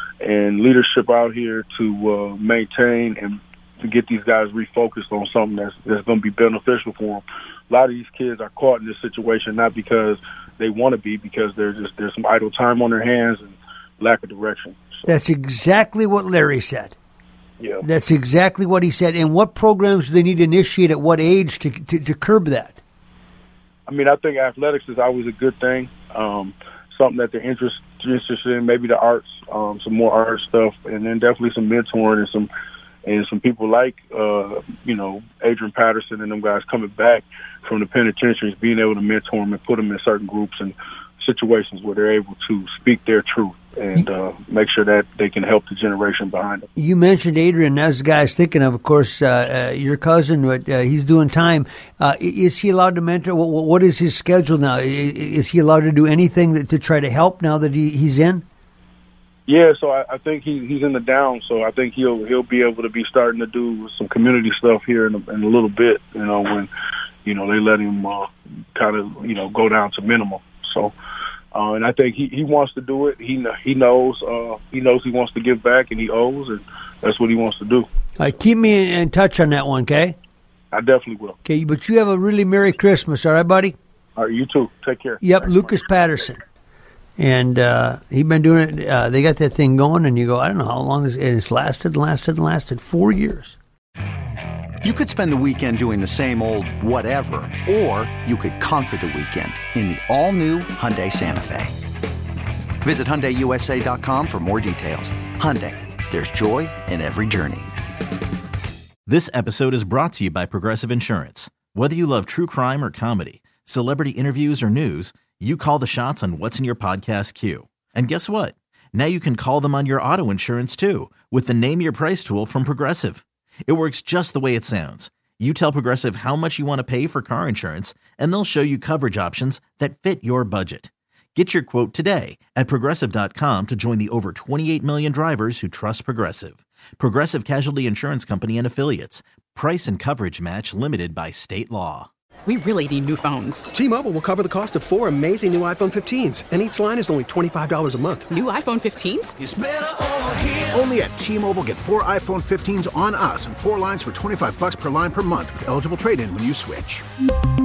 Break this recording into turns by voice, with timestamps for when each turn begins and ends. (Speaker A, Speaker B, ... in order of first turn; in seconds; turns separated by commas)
Speaker A: 0.2-15.1, Speaker B: 15.1-16.9, Speaker A: 17.6-17.9, Speaker B: 17.8-22.8, Speaker A: 23.9-32.5, Speaker A: 33.1-46.7, Speaker B: 46.8-58.4, Speaker A: 59.5-66.7, Speaker A: 67.2-70.9, Speaker A: 71.5-77.9, Speaker B: 78.2-80.2, Speaker A: 80.7-81.4, Speaker B: 81.5-83.8, Speaker A: 84.2-85.8, Speaker B: 85.2-86.4, Speaker B: 87.2-93.6, Speaker C: 94.8-101.8, Speaker C: 102.8-107.7, Speaker D: 109.1-142.1, Speaker E: 142.5-143.7, Speaker F: 143.7-148.3, Speaker E: 148.3-149.4, Speaker G: 149.4-157.1